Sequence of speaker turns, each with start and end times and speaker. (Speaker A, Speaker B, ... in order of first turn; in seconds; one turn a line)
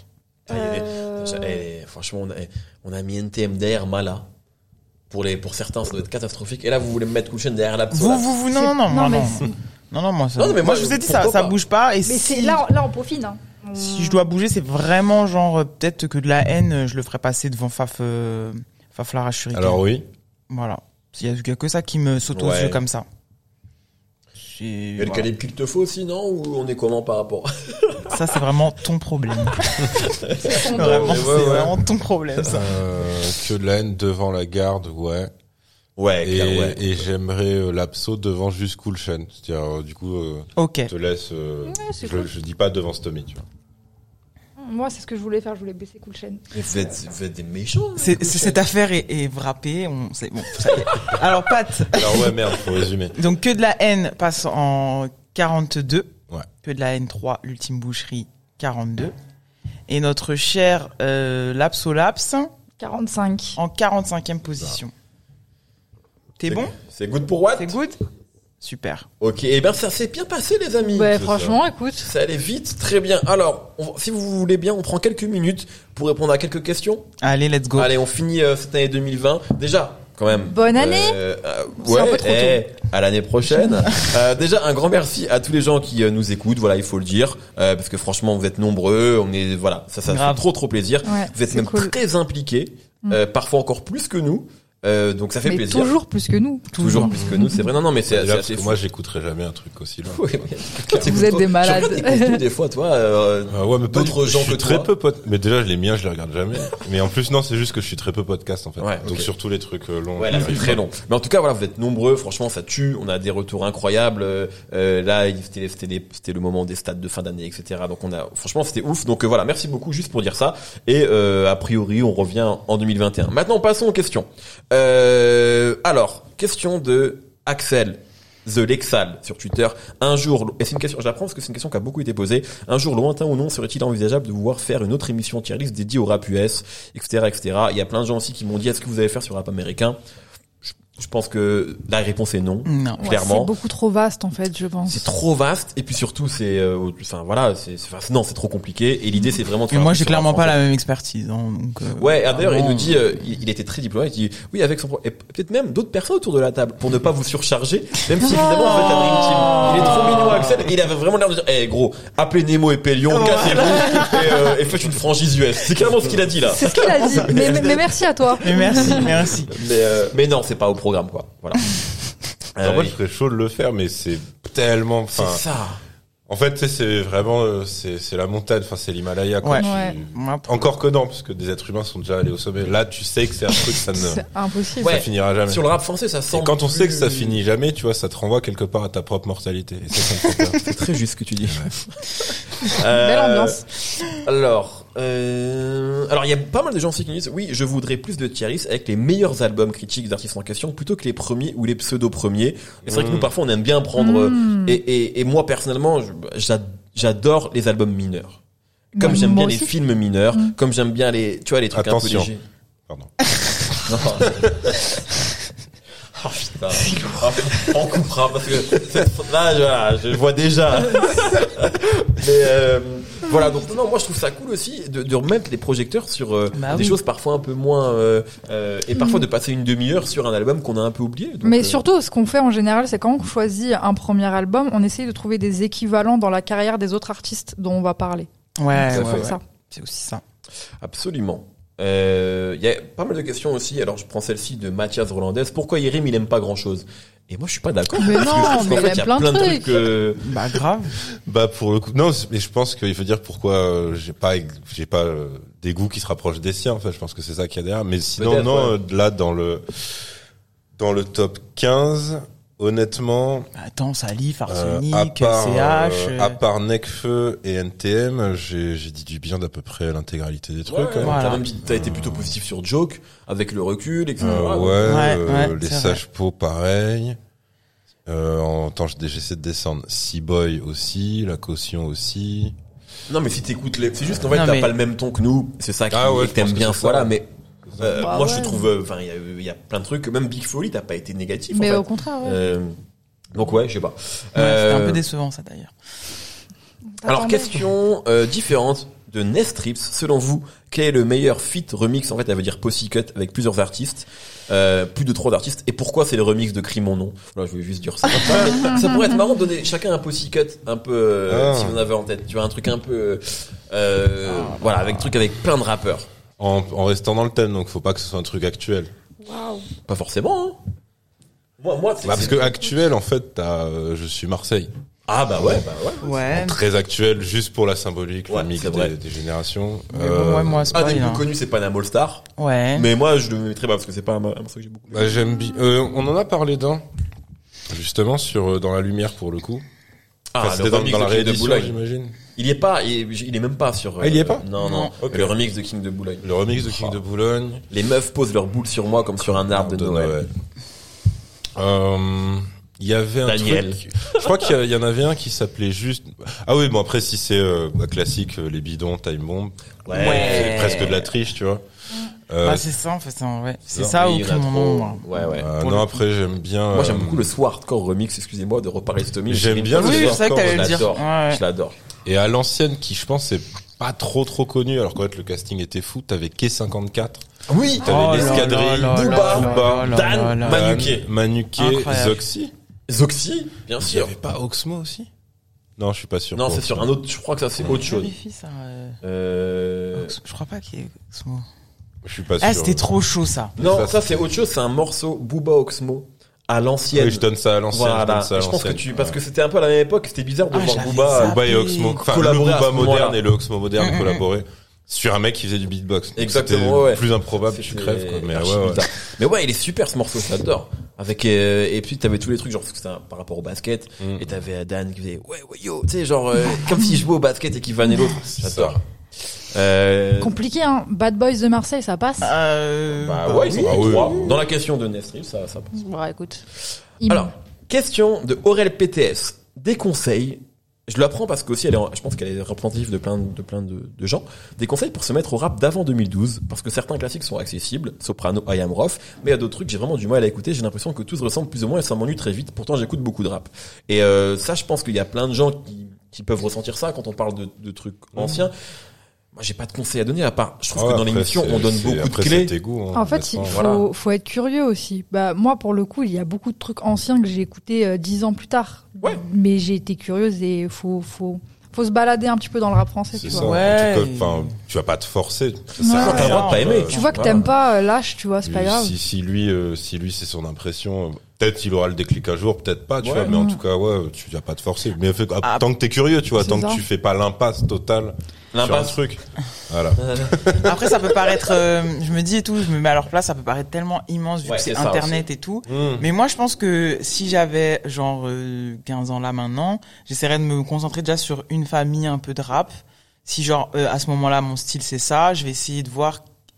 Speaker A: 0.5-4.3
Speaker B: 0.5-1.6
Speaker A: 5.1-8.3
Speaker C: 7.9-12.6
Speaker B: 8.5-9.6
Speaker A: 10.4-11.6
Speaker B: 12.1-14.3
Speaker C: 13.7-19.8
Speaker D: 19.5-20.1
Speaker C: 20.5-23.1
Speaker A: 22.3-22.8
Speaker C: 24.4-25.3
Speaker A: 25.0-28.3
Speaker C: 28.1-29.8
Speaker A: 29.5-31.8
Speaker B: 30.4-31.3
Speaker C: 30.6-32.7
Speaker A: 32.3-32.7
Speaker D: 32.5-35.3
Speaker A: 36.0-36.9
Speaker D: 36.2-43.4
Speaker C: 40.6-40.9
Speaker B: 41.6-42.3
Speaker B: 44.6-46.5
Speaker A: 46.5-48.6
Speaker C: 48.0-52.6
Speaker D: 51.9-53.2
Speaker C: 53.1-56.1
Speaker C: 56.6-59.1
Speaker C: 59.9-62.5
Speaker B: 62.8-63.6
Speaker C: 63.6-64.9
Speaker C: 66.4-66.8
Speaker A: 66.5-67.8
Speaker C: 67.6-68.0
Speaker C: 68.6-69.1
Speaker A: 69.2-71.4
Speaker B: 70.9-72.1
Speaker D: 71.2-71.5
Speaker A: 72.0-77.1
Speaker C: 77.2-78.0
Speaker A: 77.8-96.0
Speaker B: 80.3-81.2
Speaker B: 81.8-82.6
Speaker B: 83.5-83.9
Speaker C: 90.1-90.4
Speaker B: 91.0-92.0
Speaker B: 95.5-97.7
Speaker C: 96.7-97.2
Speaker A: 96.8-98.8
Speaker D: 98.0-100.4
Speaker A: 100.1-104.9
Speaker B: 100.9-102.4
Speaker D: 103.5-110.8
Speaker A: 108.8-109.3
Speaker A: 110.2-140.0
Speaker A: 140.6-143.5
Speaker C: 142.7-143.2
Speaker B: 143.0-145.1
Speaker A: 144.9-150.6
Speaker C: 149.7-153.1
Speaker A: 151.9-171.8
Speaker C: 158.2-160.7
Speaker C: 163.1-164.6
Speaker B: 166.5-169.2
Speaker C: 168.4-169.6
Speaker A: 172.6-172.9
Speaker D: 172.6-175.4
Speaker A: 175.1-175.8
Speaker D: 176.3-185.7
Speaker C: 179.4-180.7
Speaker B: 179.6-180.0
Speaker B: 183.9-185.0
Speaker A: 184.8-187.4
Speaker D: 186.3-190.6
Speaker A: 190.6-208.4
Speaker D: 191.4-191.7
Speaker B: 192.9-193.6
Speaker D: 202.9-203.3
Speaker B: 204.0-204.8
Speaker B: 208.9-209.7
Speaker A: 209.0-212.4
Speaker D: 211.7-212.3
Speaker D: 212.9-213.1
Speaker A: 213.8-214.8
Speaker D: 214.1-214.7
Speaker A: 216.2-231.8
Speaker C: 226.5-227.0
Speaker B: 229.0-229.2
Speaker B: 231.4-239.4
Speaker C: 238.6-240.2
Speaker A: 238.9-239.3
Speaker A: 240.8-250.3
Speaker B: 247.9-249.9
Speaker C: 250.2-251.0
Speaker D: 251.0-260.1
Speaker A: 258.2-258.8
Speaker D: 260.8-263.5
Speaker C: 263.6-266.4
Speaker D: 264.5-272.4
Speaker A: 270.7-275.2
Speaker C: 271.0-271.5
Speaker D: 274.2-277.2
Speaker C: 274.8-276.0
Speaker D: 278.1-282.6
Speaker A: 283.1-292.8
Speaker C: 284.3-284.7
Speaker D: 285.9-288.1
Speaker B: 288.0-288.7
Speaker B: 291.5-292.4
Speaker A: 293.3-295.0
Speaker C: 294.4-295.7
Speaker B: 297.0-297.7
Speaker A: 297.1-316.1
Speaker D: 311.3-311.9
Speaker D: 316.4-318.9
Speaker B: 319.2-319.7
Speaker A: 319.9-320.6
Speaker A: 321.6-322.6
Speaker D: 322.0-324.7
Speaker A: 325.1-326.3
Speaker C: 326.0-326.6
Speaker D: 326.3-330.8
Speaker A: 328.3-328.9
Speaker C: 329.9-331.3
Speaker A: 330.7-335.1
Speaker C: 332.4-332.9
Speaker D: 334.9-336.9
Speaker D: 337.7-339.6
Speaker A: 340.3-341.7
Speaker D: 340.4-342.2
Speaker A: 342.4-347.0
Speaker D: 344.0-344.5
Speaker C: 344.6-344.9
Speaker D: 345.0-345.4
Speaker D: 346.2-347.6
Speaker A: 347.7-350.1
Speaker D: 349.2-350.3
Speaker D: 351.6-361.6
Speaker A: 353.2-354.3
Speaker A: 359.9-361.1
Speaker C: 359.9-361.1
Speaker D: 362.3-362.7
Speaker C: 362.4-366.0
Speaker A: 363.7-365.5
Speaker D: 365.4-367.3
Speaker A: 366.7-371.8
Speaker D: 369.3-370.9
Speaker C: 369.7-371.4
Speaker D: 372.1-377.2
Speaker A: 377.5-381.1
Speaker D: 377.8-382.5
Speaker C: 377.8-380.7
Speaker C: 381.6-382.2
Speaker A: 382.9-384.1
Speaker D: 383.8-385.1
Speaker D: 385.8-386.9
Speaker A: 386.3-388.1
Speaker C: 387.6-389.0
Speaker A: 389.0-390.1
Speaker C: 389.9-391.5
Speaker D: 392.0-392.9
Speaker C: 392.4-393.5
Speaker D: 393.6-394.3
Speaker A: 393.6-403.2
Speaker D: 396.9-399.2
Speaker C: 400.5-402.0
Speaker D: 401.2-408.9
Speaker C: 403.8-404.2
Speaker A: 406.2-418.8
Speaker D: 414.0-414.3
Speaker D: 418.2-418.8
Speaker A: 419.4-420.4
Speaker B: 420.2-422.3
Speaker C: 422.2-424.1
Speaker A: 422.9-425.8
Speaker D: 423.5-424.4
Speaker B: 425.7-426.4
Speaker B: 427.0-427.3
Speaker A: 427.1-448.6
Speaker D: 448.2-448.5
Speaker A: 449.3-452.5
Speaker D: 450.7-453.6
Speaker B: 452.9-463.6
Speaker A: 453.5-453.9
Speaker D: 463.1-467.5
Speaker C: 463.3-464.5
Speaker B: 465.8-468.9
Speaker A: 465.9-467.4
Speaker C: 465.9-467.1
Speaker D: 468.4-480.9
Speaker A: 473.0-473.4
Speaker B: 473.3-473.6
Speaker B: 476.4-476.8
Speaker A: 478.5-479.0
Speaker A: 480.0-480.7
Speaker C: 480.6-492.7
Speaker A: 484.4-485.2
Speaker D: 485.7-486.1
Speaker C: 493.2-496.2